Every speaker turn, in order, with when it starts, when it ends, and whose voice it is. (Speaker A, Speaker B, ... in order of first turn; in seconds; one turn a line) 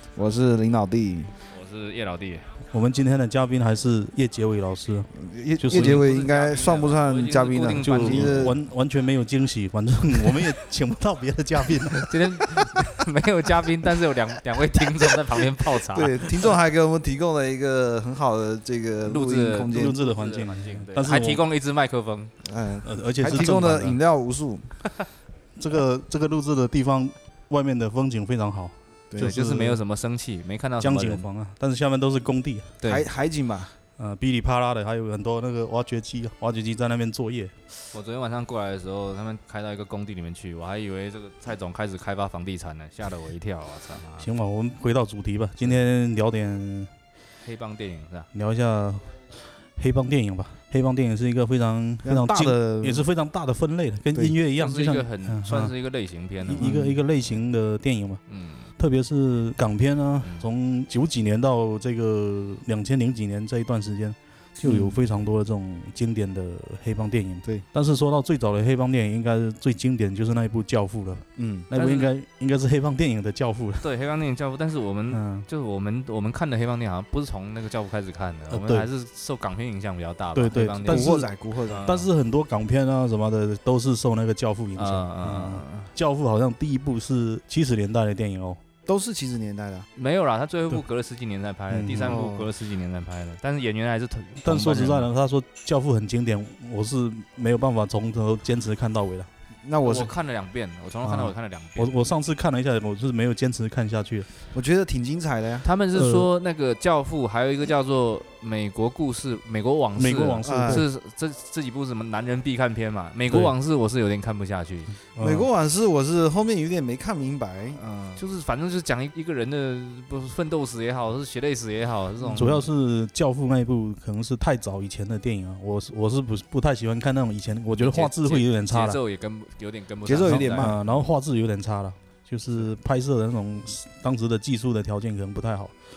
Speaker A: 0.1-1.3
Speaker B: 1.5-2.5
Speaker C: 2.7-6.0
Speaker A: 5.1-8.6
Speaker B: 5.7-8.5
Speaker C: 8.0-12.4
Speaker B: 12.1-16.2
Speaker A: 15.8-19.9
Speaker B: 19.0-22.3
Speaker C: 19.7-21.4
Speaker A: 22.4-24.8
Speaker C: 22.8-24.0
Speaker C: 25.6-29.5
Speaker A: 29.1-29.8
Speaker B: 29.2-31.2
Speaker C: 30.8-32.7
Speaker B: 32.8-33.0
Speaker A: 32.8-33.7
Speaker C: 34.0-37.5
Speaker B: 37.9-44.3
Speaker C: 44.2-46.9
Speaker B: 47.4-48.3
Speaker C: 48.3-49.2
Speaker C: 49.8-55.7
Speaker A: 52.0-53.0
Speaker B: 54.5-56.7
Speaker C: 56.4-58.2
Speaker A: 56.6-57.0
Speaker B: 58.3-58.7
Speaker C: 58.8-73.8
Speaker A: 64.6-65.0
Speaker A: 71.4-71.7
Speaker B: 71.7-72.1
Speaker B: 73.8-82.1
Speaker C: 75.1-75.5
Speaker C: 78.5-78.9
Speaker C: 80.3-81.2
Speaker A: 80.8-81.8
Speaker C: 81.8-88.6
Speaker B: 84.8-85.9
Speaker A: 88.8-89.9
Speaker B: 90.0-95.1
Speaker C: 91.7-92.2
Speaker A: 92.0-92.5
Speaker C: 94.4-99.3
Speaker A: 99.6-100.1
Speaker B: 99.8-102.0
Speaker C: 101.0-104.3
Speaker A: 104.5-105.7
Speaker B: 105.6-114.9
Speaker C: 105.9-106.3
Speaker C: 110.0-110.9
Speaker A: 110.4-110.8
Speaker C: 115.0-115.5
Speaker A: 115.2-117.8
Speaker B: 117.8-122.6
Speaker C: 122.3-129.0
Speaker B: 127.8-130.7
Speaker A: 130.1-130.8
Speaker C: 130.2-135.7